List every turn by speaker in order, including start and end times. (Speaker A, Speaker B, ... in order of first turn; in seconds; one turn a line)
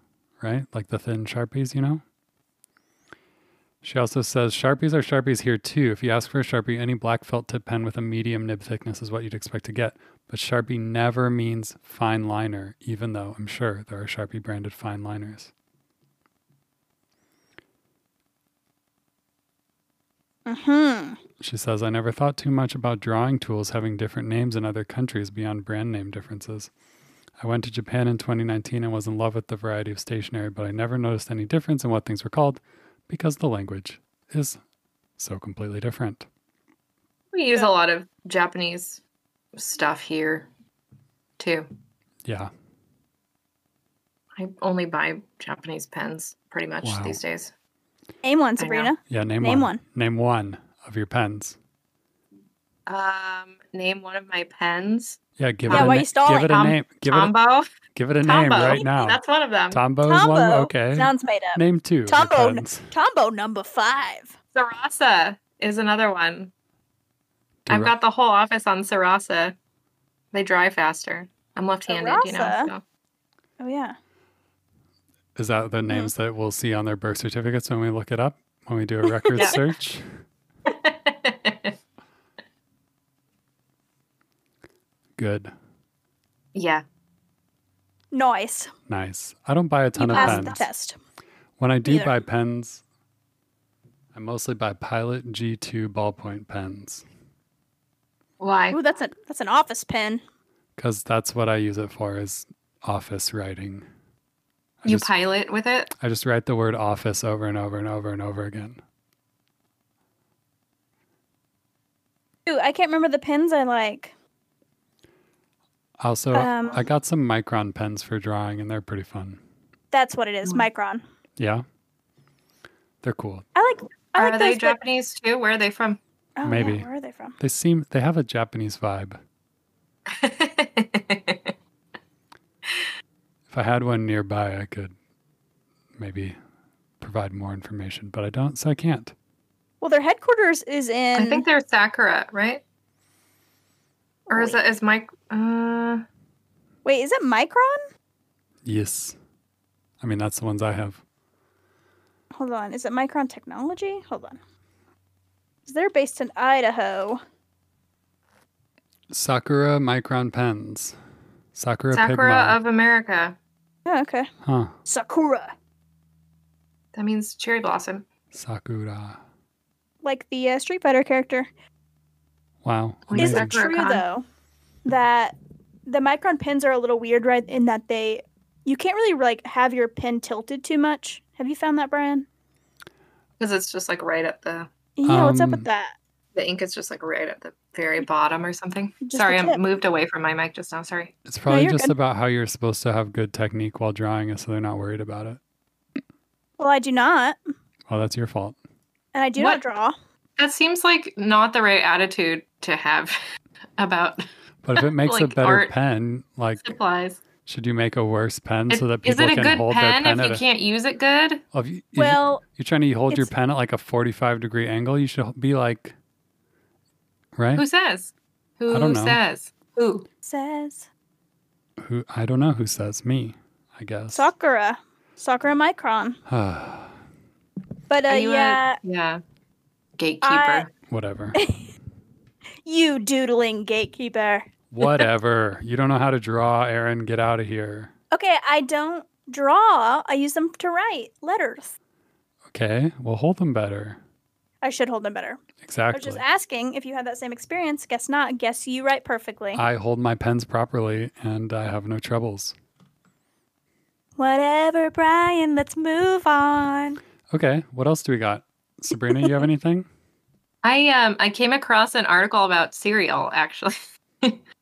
Speaker A: 0.4-2.0
Speaker A: 3.8-15.5
Speaker B: 20.4-21.2
Speaker A: 21.4-26.7
Speaker A: 27.4-34.6
Speaker A: 35.2-36.3
Speaker C: 37.3-39.0
Speaker C: 39.5-40.5
Speaker C: 41.4-41.7
Speaker A: 42.2-42.5
Speaker C: 44.4-47.5
Speaker A: 46.8-47.2
Speaker B: 48.2-49.8
Speaker C: 48.6-48.9
Speaker A: 49.1-51.6
Speaker C: 52.9-57.6
Speaker A: 55.4-57.3
Speaker B: 55.7-56.6
Speaker A: 57.9-62.9
Speaker C: 58.2-59.8
Speaker B: 58.6-58.9
Speaker B: 60.0-64.3
Speaker C: 64.5-66.5
Speaker A: 67.7-67.9
Speaker C: 67.7-69.5
Speaker C: 70.3-72.8
Speaker B: 71.9-72.7
Speaker B: 73.6-73.9
Speaker A: 75.3-80.0
Speaker B: 75.9-76.1
Speaker C: 80.7-81.7
Speaker A: 85.2-85.5
Speaker C: 86.5-86.8
Speaker B: 88.1-88.7
Speaker A: 88.9-90.7
Speaker B: 90.0-91.0
Speaker C: 90.1-90.5
Speaker A: 91.6-92.8
Speaker B: 91.8-92.2
Speaker A: 94.1-97.0
Speaker C: 98.4-98.8
Speaker B: 98.7-100.2
Speaker A: 100.8-103.8
Speaker A: 104.8-105.1
Speaker C: 104.8-105.9
Speaker A: 106.0-108.8
Speaker B: 112.5-114.1
Speaker A: 116.0-119.4
Speaker B: 116.3-116.8
Speaker B: 119.9-121.0
Speaker A: 121.4-121.6
Speaker A: 123.0-123.5
Speaker B: 123.5-124.8
Speaker C: 124.2-126.0
Speaker B: 126.4-127.3
Speaker A: 126.4-129.2
Speaker C: 130.1-131.5
Speaker A: 133.5-134.9
Speaker A: 136.0-136.4
Speaker A: 137.0-139.1
Speaker B: 139.8-141.4
Speaker C: 141.1-142.6
Speaker C: 144.3-146.0
Speaker B: 144.3-144.6
Speaker B: 146.8-147.8
Speaker A: 148.6-149.2
Speaker A: 150.0-151.0
Speaker B: 152.4-154.4
Speaker B: 155.7-157.2
Speaker A: 159.1-160.9
Speaker A: 161.5-162.6
Speaker C: 161.9-163.3
Speaker B: 163.8-164.3
Speaker A: 164.4-164.7
Speaker B: 164.8-165.5
Speaker C: 166.9-168.1
Speaker A: 168.3-169.2
Speaker B: 170.0-171.5
Speaker A: 172.6-173.6
Speaker C: 173.1-174.0
Speaker B: 173.2-174.2
Speaker B: 174.8-182.2
Speaker C: 183.4-184.7
Speaker B: 185.0-185.9
Speaker A: 185.1-185.7
Speaker C: 186.3-191.1
Speaker B: 189.0-189.6
Speaker A: 191.2-195.4
Speaker B: 191.5-191.9
Speaker B: 196.6-197.4
Speaker A: 197.9-198.6
Speaker B: 199.1-199.9
Speaker C: 199.3-199.6
Speaker C: 200.4-203.1
Speaker C: 203.8-204.2
Speaker A: 204.6-206.8
Speaker C: 204.8-205.7
Speaker C: 206.6-207.2
Speaker A: 207.4-210.4
Speaker C: 208.7-211.4
Speaker A: 211.5-215.9
Speaker B: 212.0-212.4
Speaker A: 217.3-217.6
Speaker C: 217.6-220.1
Speaker A: 218.7-219.2
Speaker B: 220.2-220.9
Speaker A: 221.8-224.3
Speaker B: 224.1-226.2
Speaker A: 226.3-226.9
Speaker B: 227.9-228.8
Speaker C: 228.1-229.2
Speaker C: 230.0-230.7
Speaker B: 230.2-230.7
Speaker A: 230.9-231.4
Speaker B: 231.3-231.7
Speaker B: 232.6-234.5
Speaker A: 234.7-237.9
Speaker B: 238.1-241.7
Speaker A: 242.5-244.0
Speaker B: 244.6-245.4
Speaker A: 245.6-246.2
Speaker B: 245.9-249.6
Speaker A: 249.5-252.5
Speaker B: 254.2-257.0
Speaker A: 257.3-259.9
Speaker C: 260.6-264.4